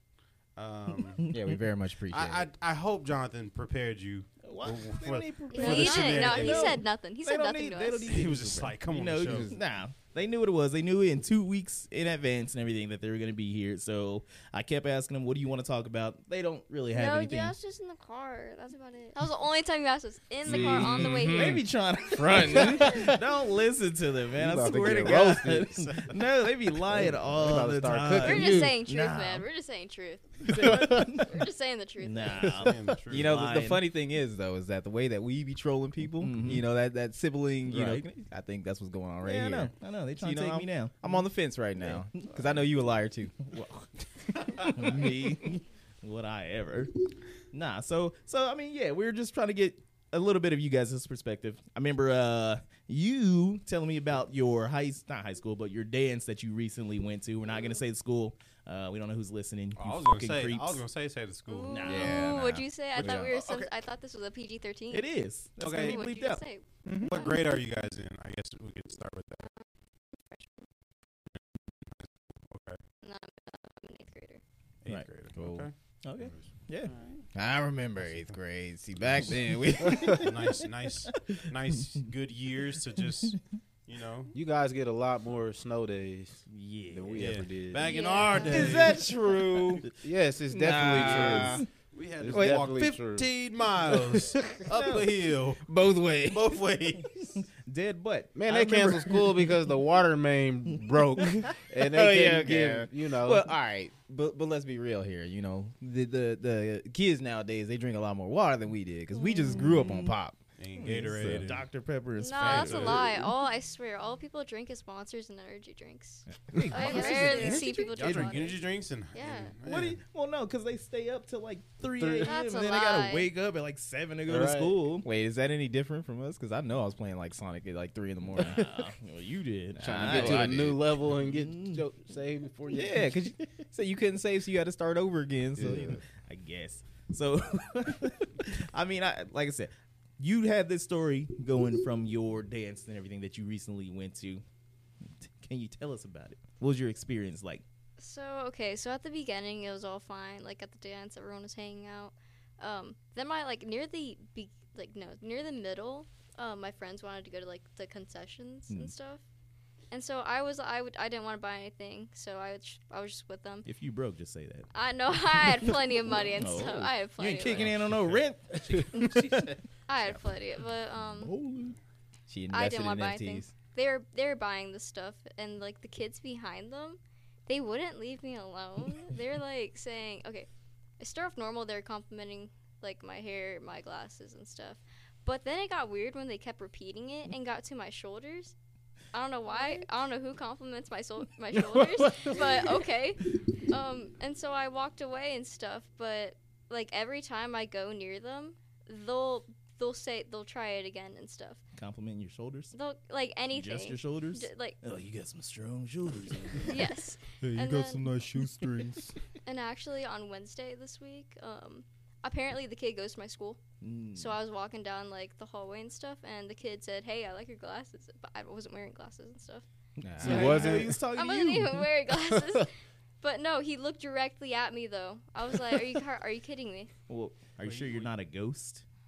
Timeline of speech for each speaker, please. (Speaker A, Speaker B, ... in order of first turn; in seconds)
Speaker A: 0.6-1.3, 2.1-6.8, 8.1-9.6, 32.5-33.5, 59.7-61.9, 63.0-63.7, 65.6-66.0, 67.0-69.5, 72.5-72.8, 74.8-77.2, 80.2-84.3, 87.1-89.1, 91.9-95.6, 96.2-97.4, 110.6-111.7, 112.4-113.2, 118.0-120.0, 168.1-169.5, 227.6-228.1
Speaker B: 1.3-2.4, 22.5-22.8, 33.1-43.6, 61.8-63.3, 75.3-75.7, 77.3-80.6, 88.3-89.8, 90.5-91.7, 92.3-92.7, 95.7-96.5, 101.8-110.4, 116.5-117.8, 125.0-128.9, 129.8-130.8, 132.7-136.0, 172.3-173.5, 207.5-208.9, 220.0-220.9
Speaker C: 4.4-17.5, 20.5-29.4, 30.4-31.3, 32.0-33.8, 36.1-36.7, 37.6-38.0, 39.2-41.2, 41.9-42.3, 43.5-43.8, 44.6-46.9, 47.5-60.8, 61.7-62.3, 64.9-67.1, 76.0-76.9, 86.5-87.3, 90.7-91.6, 97.5-99.5, 109.5-110.1, 110.7-113.1, 118.0-118.3, 119.6-125.1, 128.3-131.8, 136.2-144.4, 145.2-147.6, 163.6-164.7, 165.4-169.5, 171.2-171.8, 201.7-202.7, 203.5-206.8, 207.4-209.1, 213.8-214.4, 220.0-221.9, 227.1-228.8
Speaker D: 5.5-6.6, 16.9-19.2, 87.9-88.7, 116.7-117.9, 189.5-189.9
Speaker E: 5.5-8.2, 19.1-21.6, 28.2-32.5, 61.5-65.1, 65.7-67.4, 69.4-70.7, 73.0-74.4, 87.8-88.5, 112.2-119.5, 122.2-123.3, 148.0-159.2, 159.9-163.7, 164.7-167.7, 169.9-171.3, 172.5-180.5, 181.0-188.5, 189.1-201.6, 202.7-204.8, 206.7-208.1, 209.4-213.6, 214.1-219.6, 221.1-222.7, 223.2-226.9
Speaker F: 9.2-9.6, 20.4-21.6, 22.1-23.2, 24.3-25.9, 26.9-28.7, 30.6-31.0, 79.8-80.2, 84.3-88.0, 90.0-91.7, 92.2-93.3, 93.9-94.6, 98.3-103.5, 116.5-117.5, 122.0-122.3, 124.3-124.8, 129.8-133.1, 135.6-136.0, 220.2-221.0